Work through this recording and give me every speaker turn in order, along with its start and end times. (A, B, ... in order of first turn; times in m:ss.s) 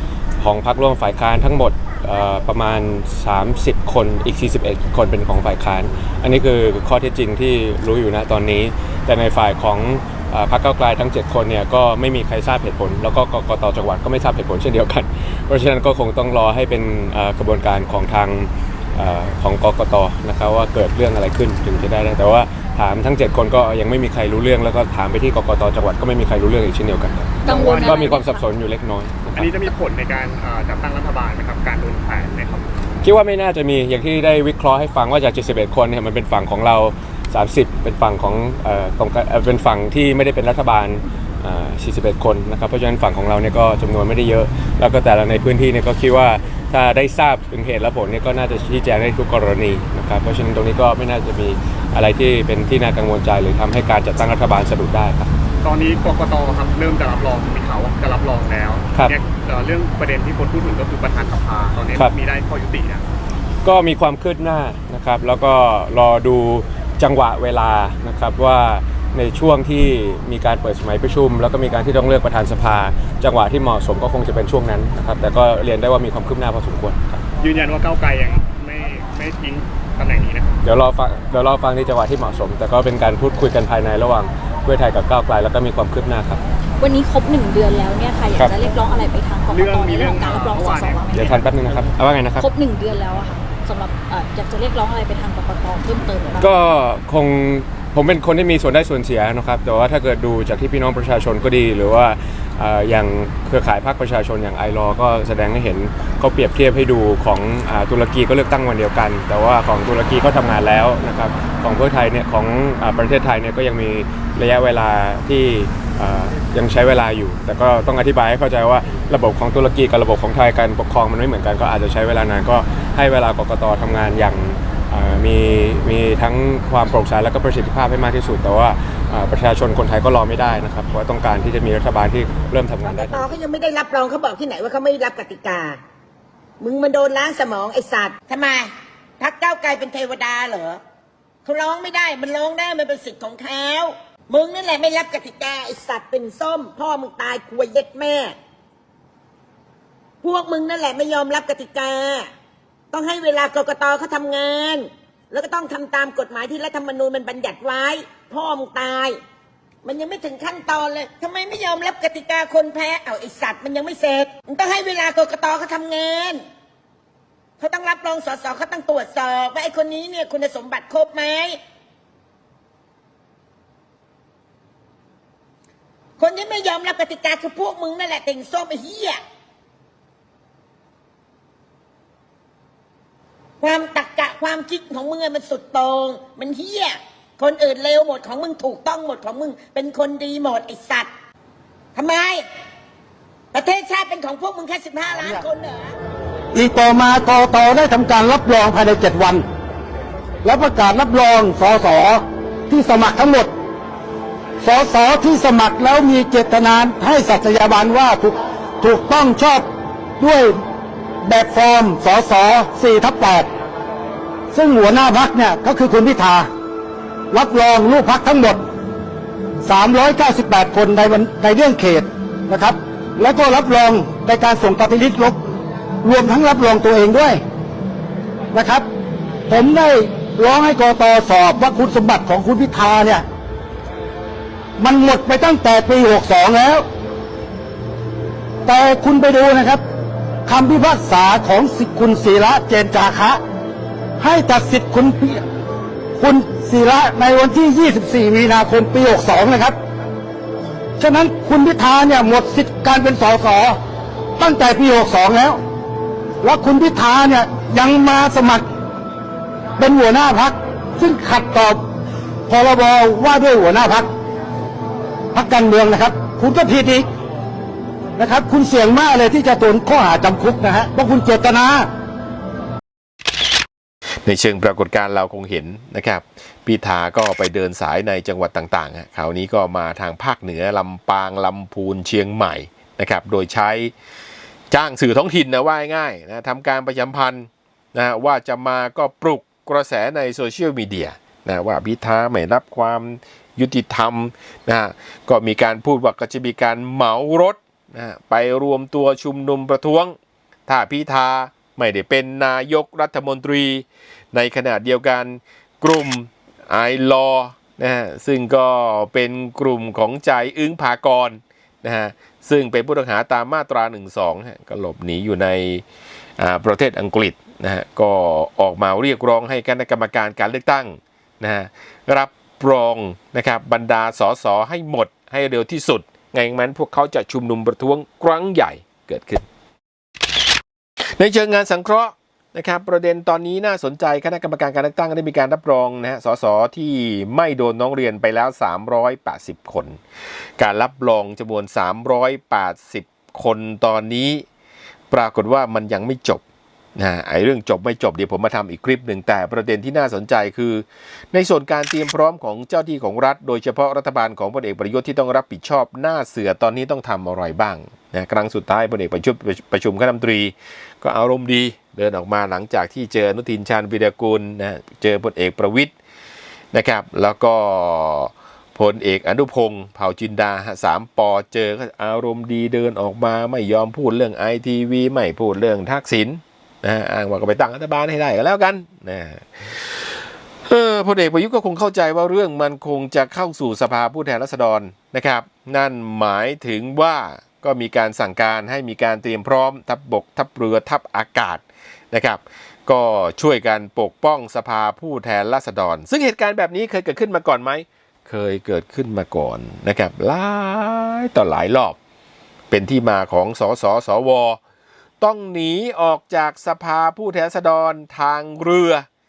0:00.4-0:29.5 A
0:27.4-0:28.4 B
0:27.6-0:28.2 C
0:29.4-0:32.7 C
0:33.0-0:55.3 A
0:55.6-1:03.0 C
1:03.6-1:17.2 A
1:17.4-1:20.5 C
1:20.6-1:26.4 A
1:26.8-1:31.2 B
1:29.5-1:31.9 C
1:31.1-1:32.5 A
1:32.4-1:36.5 B
1:36.4-2:13.3 A
2:12.8-2:15.8 D
2:16.6-2:20.8 D
2:21.4-2:28.3 D
2:30.2-2:32.3 D
2:32.9-2:39.2 D
2:39.8-2:46.4 D
2:47.6-2:51.6 D
2:56.2-2:59.2 D
3:03.6-3:11.1 D
3:11.9-3:12.4 D
3:13.5-3:16.0 D
3:16.5-3:19.4 E
3:20.4-3:23.5 E
3:24.6-3:29.7 E
3:30.2-3:30.6 E
3:31.2-3:33.5 E
3:34.5-3:36.5 E
3:37.3-3:38.6 E
3:39.6-3:45.4 E
3:46.0-3:47.4 E
3:48.5-3:48.9 E
3:49.5-3:53.2 E
3:54.8-3:56.9 E
3:58.6-3:59.8 E
4:00.5-4:03.4 E
4:04.2-4:05.4 E
4:06.2-4:09.8 E
4:11.0-4:13.8 E
4:14.4-4:15.6 E
4:16.4-4:18.6 E
4:19.8-4:21.8 E
4:22.5-4:24.1 E
4:25.3-4:27.1 E
4:28.2-4:31.9 E
4:34.2-4:43.9 F
4:44.7-5:00.2 F
5:00.7-5:15.8 F
5:16.4-5:29.4 F
5:31.2-5:40.0 F
5:40.6-5:44.4 F
5:45.1-5:46.4 F
5:47.0-6:05.9 F
6:06.7-6:19.9 F
6:20.7-6:42.0 F
6:42.7-6:44.6 F
6:45.2-6:49.0 F